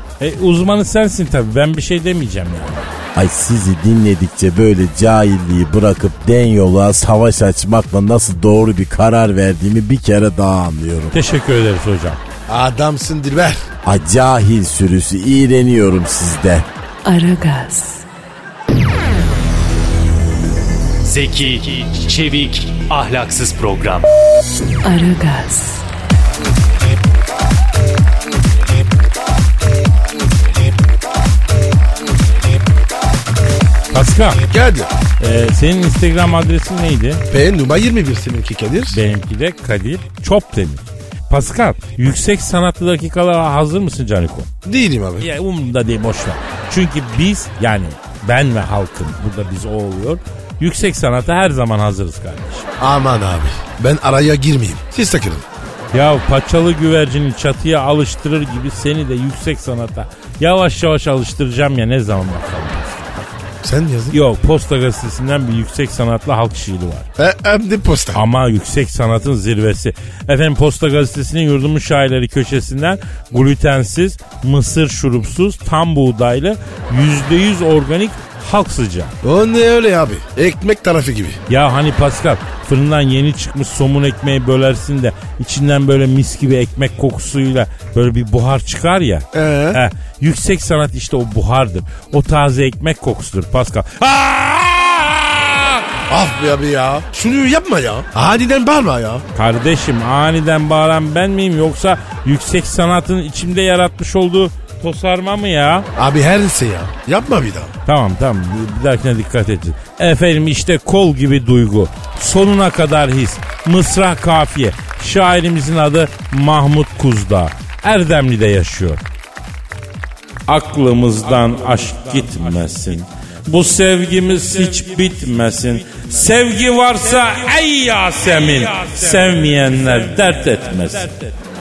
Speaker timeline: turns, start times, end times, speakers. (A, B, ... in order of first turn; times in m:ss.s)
0:00.2-0:02.9 A
0:03.1-0:11.2 B
0:11.1-0:12.2 A
0:12.5-0:13.6 C
0:13.8-0:16.7 B
0:17.0-0:18.0 D
0:21.0-0:24.1 E
0:24.8-0:25.8 D
0:33.9-0:34.4 A
0:34.5-0:34.9 C
0:35.2-0:37.2 A
0:37.3-0:39.0 C
0:38.9-0:44.5 A
0:44.6-0:45.3 C
0:45.2-0:52.7 A
0:52.8-0:55.4 C
0:55.9-1:03.3 A
1:03.6-1:04.2 C
1:04.1-1:07.1 A
1:07.2-1:08.2 C
1:08.1-1:19.1 A
1:19.2-1:21.4 C
1:21.5-1:35.8 A
1:29.3-1:29.8 C
1:36.1-1:39.2 C
1:39.3-1:45.8 A
1:46.0-1:47.7 C
1:47.9-1:59.0 A
2:00.5-2:11.3 A